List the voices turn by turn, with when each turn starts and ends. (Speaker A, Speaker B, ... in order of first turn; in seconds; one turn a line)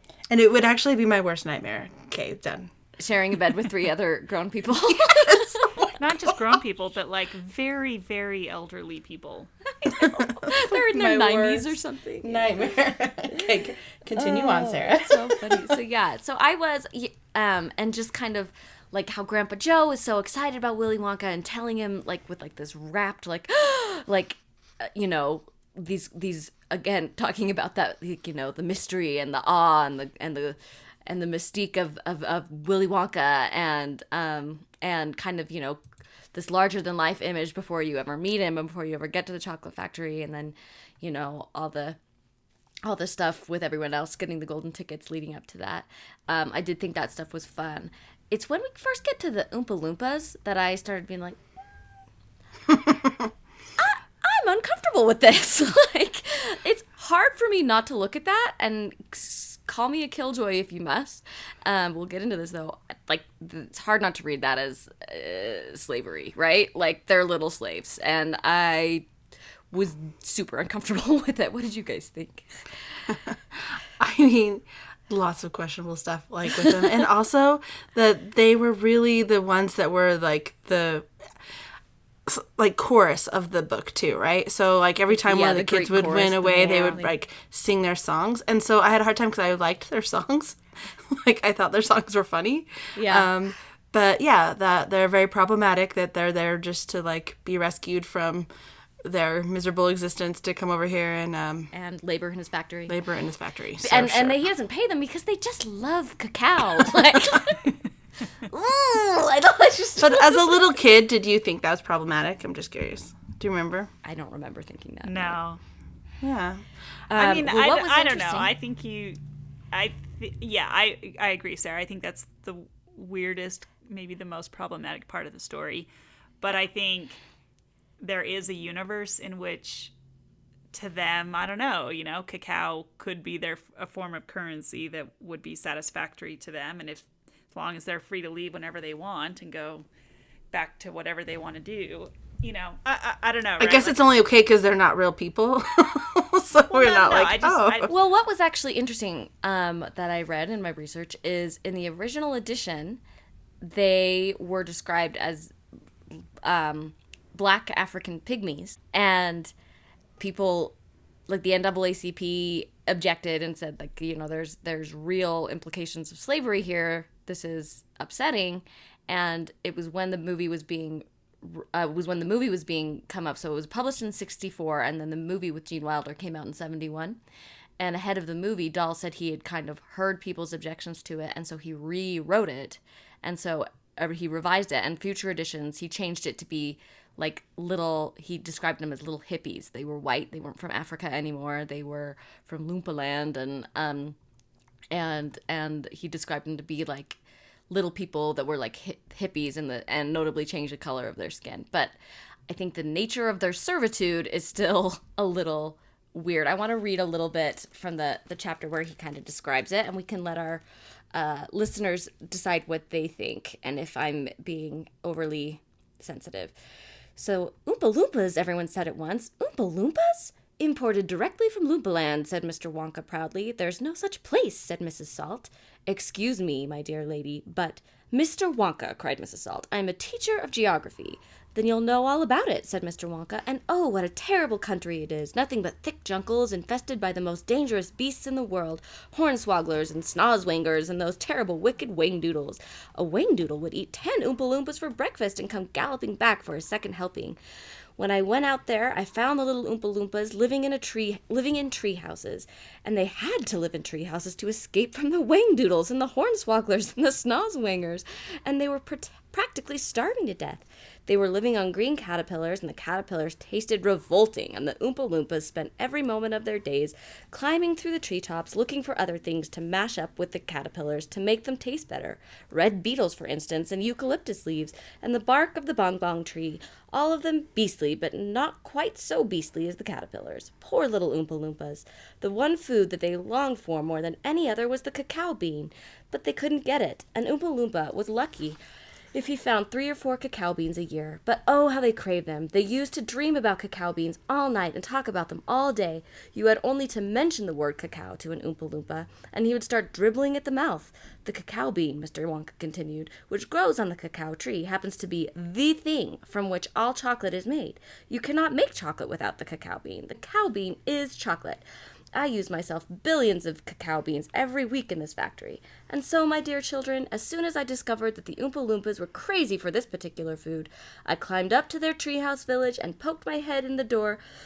Speaker A: 0.3-2.7
Speaker B: 3.0-5.9
Speaker A: 4.9-5.8
Speaker C: 6.0-9.5
Speaker B: 9.8-12.7
Speaker A: 10.0-15.8
Speaker B: 14.1-35.8
Speaker B: 36.3-42.0
Speaker B: 42.8-51.4
Speaker B: 53.8-69.1
Speaker B: 69.7-73.1
Speaker A: 73.1-81.1
Speaker A: 82.2-98.5
Speaker B: 85.1-87.1
Speaker B: 92.9-93.3
Speaker A: 99.0-101.7
Speaker B: 101.7-103.0
Speaker A: 102.9-104.4
Speaker B: 103.8-107.7
Speaker B: 108.5-110.7
Speaker A: 110.0-113.9
Speaker B: 114.0-115.4
Speaker C: 115.0-115.6
Speaker A: 116.2-116.7
Speaker B: 117.1-118.5
Speaker C: 117.1-119.2
Speaker C: 119.7-125.9
Speaker C: 126.4-127.2
Speaker C: 128.0-129.9
Speaker C: 130.7-139.9
Speaker C: 140.5-144.0
Speaker A: 143.6-147.9
Speaker C: 146.7-147.9
Speaker B: 147.9-153.0
Speaker B: 153.6-155.5
Speaker B: 156.1-159.5
Speaker B: 160.2-160.8
Speaker B: 161.3-177.2
Speaker B: 177.8-194.2
Speaker B: 194.9-197.2
Speaker B: 197.7-201.9
Speaker B: 202.5-216.5
Speaker B: 217.2-247.4
Speaker B: 248.0-288.6
Speaker B: 289.1-324.2